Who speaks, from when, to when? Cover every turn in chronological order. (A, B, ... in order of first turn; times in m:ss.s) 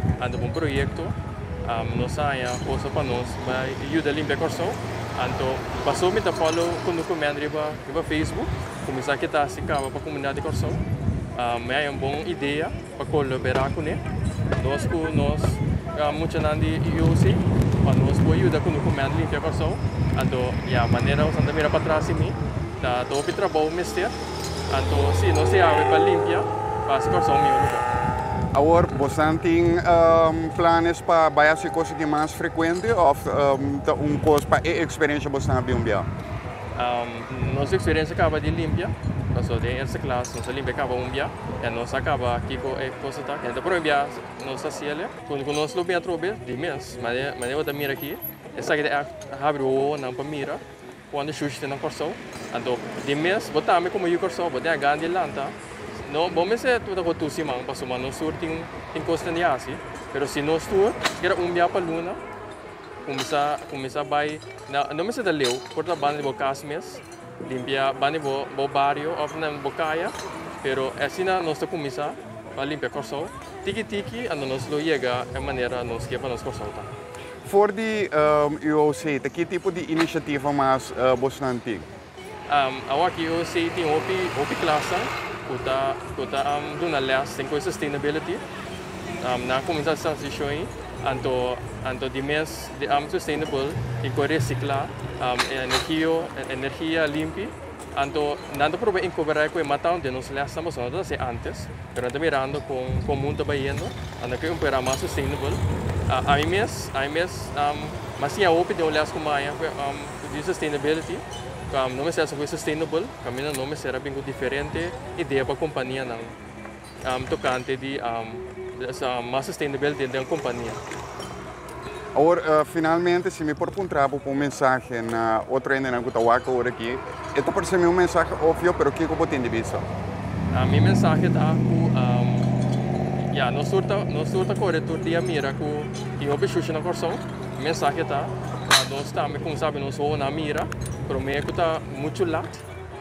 0:00.2-0:10.8 A
0:11.4-0:14.0 A
0:14.5-0:24.2 A
0:24.7-0:27.9 A
0:28.5-0:36.1 B
0:36.8-1:02.2 A
1:03.0-1:16.9 A
1:17.4-1:21.9 B
1:22.5-1:28.4 A
1:29.2-1:56.4 A
1:57.0-2:00.8 A
2:02.2-2:09.9 B
2:10.5-2:12.5 A
2:13.2-2:22.6 A